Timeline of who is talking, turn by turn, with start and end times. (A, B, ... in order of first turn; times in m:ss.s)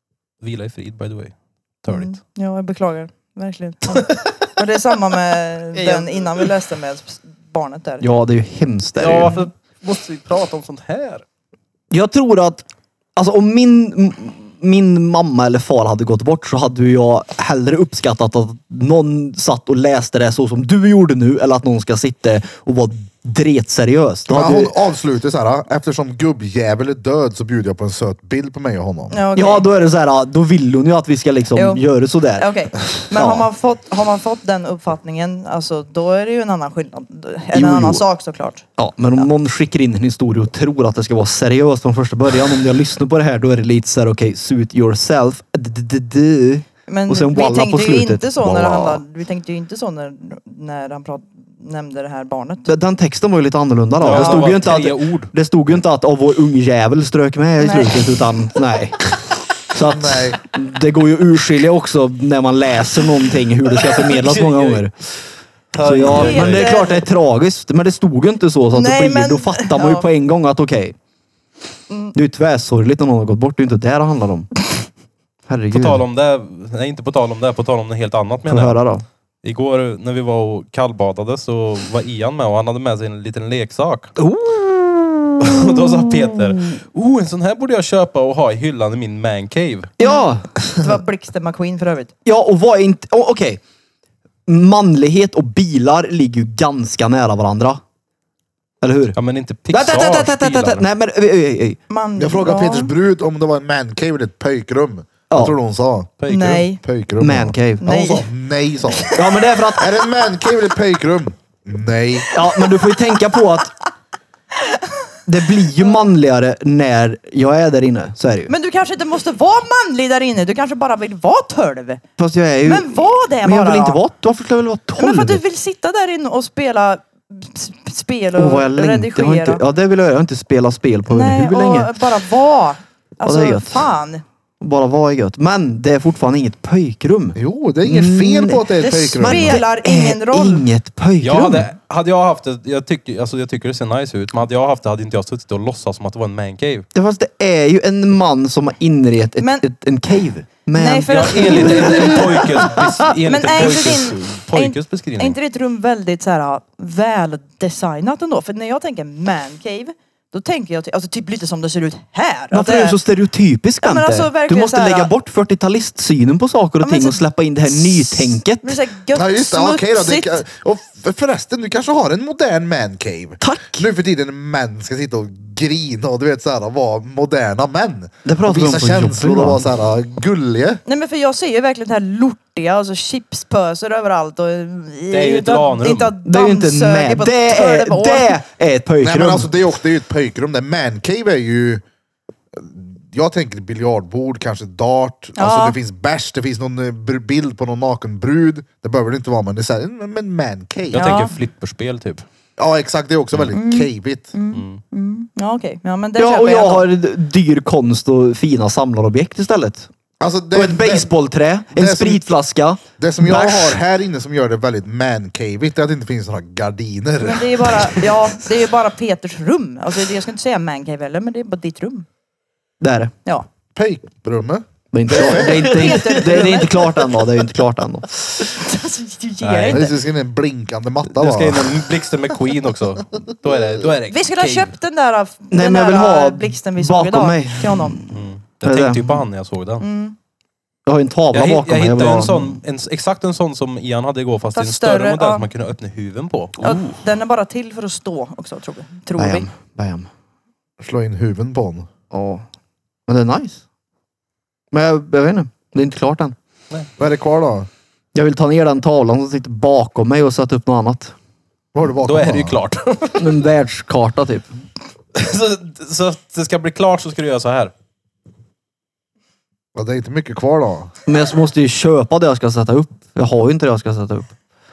0:00.4-0:02.1 A
0:01.9-0:08.0 B
0:05.8-0:06.4 A
0:08.0-0:09.4 C
0:09.0-0:11.2 A
0:11.9-0:12.6 C
0:13.2-0:24.7 C
0:24.3-0:29.2 D
0:29.1-0:29.6 B
0:29.3-0:32.5 C
0:31.5-0:31.8 B
0:32.4-0:38.6 B
0:33.1-0:33.4 C
0:37.5-0:38.0 C
0:38.8-0:49.0 C
0:46.9-0:52.7 B
0:52.7-0:59.2 C
0:54.0-0:55.3 A
0:54.0-0:54.5 B
0:57.6-0:58.0 B
0:59.7-1:04.9 C
0:59.8-1:00.4 D
1:03.8-1:04.8 A
1:05.7-1:06.8 A
1:05.8-1:11.0 C
1:06.1-1:07.0 B
1:08.7-1:10.1 B
1:11.9-1:12.1 B
1:12.1-1:14.5 C
1:15.5-1:16.0 C
1:15.7-1:18.8 A
1:18.5-1:19.0 C
1:19.4-1:24.1 A
1:24.2-1:26.5 C
1:25.4-1:29.9 A
1:30.0-1:30.5 C
1:30.0-1:32.1 B
1:32.2-1:33.6 C
1:34.4-1:37.8 C
1:38.8-1:39.2 C
1:39.2-1:40.8 A
1:39.7-1:41.8 C
1:41.9-1:42.9 B
1:42.2-1:46.1 D
1:45.3-1:45.6 C
1:46.2-1:46.6 A
1:46.3-1:46.8 B
1:46.8-1:49.2 D
1:47.2-1:47.9 C
1:47.8-1:48.3 B
1:49.0-1:49.4 B
1:49.1-1:49.9 C
1:49.8-1:52.3 D
1:52.3-1:53.7 C
1:55.2-1:58.5 C
1:58.5-2:02.0 B
2:02.2-2:05.4 C
2:02.6-2:04.0 B
2:05.0-2:09.6 B
2:08.4-2:11.9 C
2:11.1-2:14.2 B
2:13.2-2:13.9 C
2:14.6-2:21.7 C
2:17.4-2:19.6 D
2:18.8-2:20.7 B
2:21.2-2:26.9 A
2:26.9-2:33.1 C
2:29.4-2:29.7 B
2:30.7-2:32.4 B
2:31.1-2:35.4 A
2:33.2-2:43.0 B
2:42.5-2:48.8 C
2:43.8-2:45.1 B
2:46.8-2:50.4 B
2:49.1-3:00.8 D
2:53.4-2:53.9 C
2:58.2-2:59.7 C
3:00.8-3:08.3 B
3:05.1-3:06.1 A
3:06.2-3:09.5 C
3:09.0-3:11.8 D
3:12.5-3:21.2 D
3:15.4-3:15.8 B
3:20.9-3:22.2 A
3:20.9-3:21.3 B
3:22.6-3:24.3 D
3:23.5-3:26.9 B
3:24.5-3:24.8 A
3:26.2-3:29.9 C
3:30.2-3:31.1 D
3:30.5-3:33.8 C
3:31.7-3:32.2 D
3:33.0-3:37.9 D
3:37.2-3:42.1 B
3:42.8-3:43.1 C
3:43.7-3:45.6 D
3:44.9-3:48.2 C
3:45.1-3:47.1 B
3:48.4-3:49.9 B
3:49.4-3:49.9 A
3:49.6-3:51.8 D
3:51.1-3:54.7 A
3:54.1-3:58.0 B
3:55.5-3:59.2 C
3:58.1-3:59.8 A
3:59.8-4:00.2 B
4:00.8-4:02.6 C
4:01.3-4:07.0 A
4:04.5-4:05.5 B
4:06.6-4:09.5 B
4:09.2-4:10.1 C
4:10.8-4:11.9 D
4:12.1-4:12.4 C
4:13.1-4:13.6 C
4:14.7-4:16.3 C
4:17.0-4:17.7 D
4:18.1-4:21.1 C
4:21.7-4:22.6 D
4:22.0-4:23.4 A
4:23.2-4:24.5 C
4:25.1-4:27.7 A
4:29.7-4:30.9 D
4:31.0-4:34.3 C